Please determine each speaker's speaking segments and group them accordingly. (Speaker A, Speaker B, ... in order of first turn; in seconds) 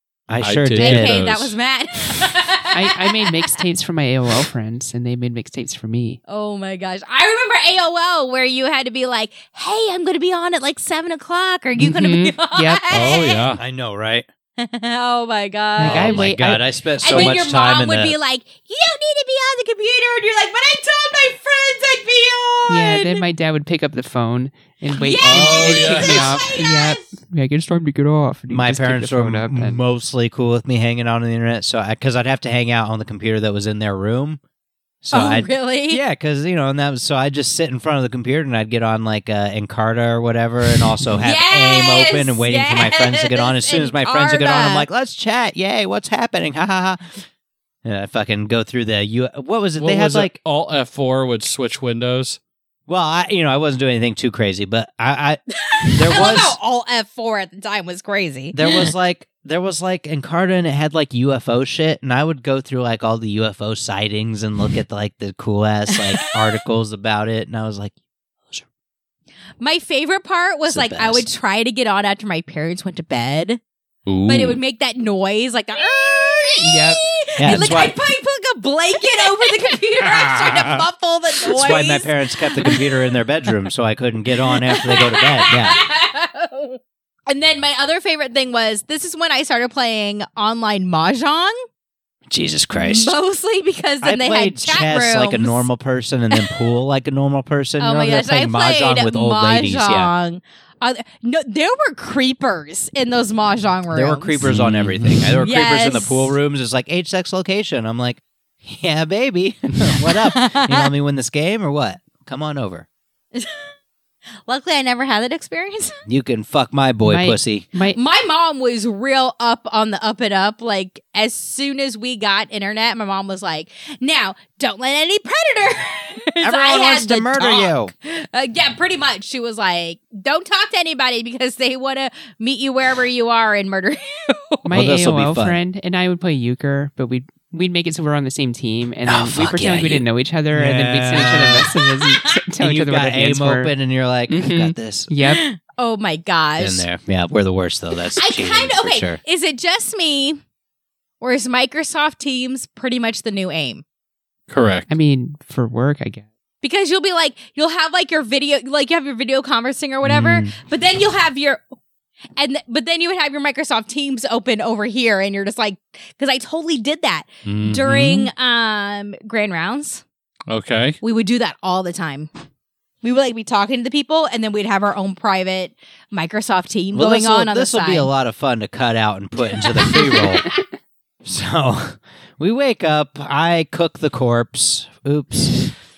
Speaker A: 0.3-1.2, 13.6-14.2, 15.8-18.1, 28.5-34.4, 35.0-47.1, 47.8-50.4, 52.9-55.4, 55.9-56.6, 58.5-67.9, 70.7-71.3, 77.4-78.0, 80.2-80.8, 81.5-85.8, 92.3-93.2, 94.0-100.1, 103.9-112.9, 116.0-117.7, 126.4-127.9, 134.7-135.6, 139.0-141.7, 142.6-145.1, 146.6-149.2, 176.9-180.5, 181.2-185.6
Speaker B: 0.4-1.5, 12.9-13.6, 25.2-26.4, 49.8-52.4, 74.1-74.6, 104.4-105.4, 154.5-154.9, 160.0-160.5, 167.4-168.3, 170.5-171.0
Speaker C: 0.8-3.5, 6.3-13.4, 14.6-16.3, 17.0-23.2, 24.9-27.0, 35.1-36.0, 41.2-44.9, 55.7-58.9, 69.6-73.6, 74.3-82.8, 84.7-91.5, 92.8-95.7, 97.8-104.5, 105.4-106.3, 110.4-110.9, 114.5-115.9, 117.9-134.7, 145.2-146.8, 148.2-150.4, 151.2-153.8, 156.6-161.6, 162.4-170.0, 171.0-172.3, 173.0-178.1, 179.6-180.6
Speaker D: 2.7-6.2, 11.8-12.9, 15.8-17.3, 22.7-29.8, 76.6-77.0, 117.0-118.0, 134.7-143.7, 144.3-145.4, 154.9-156.2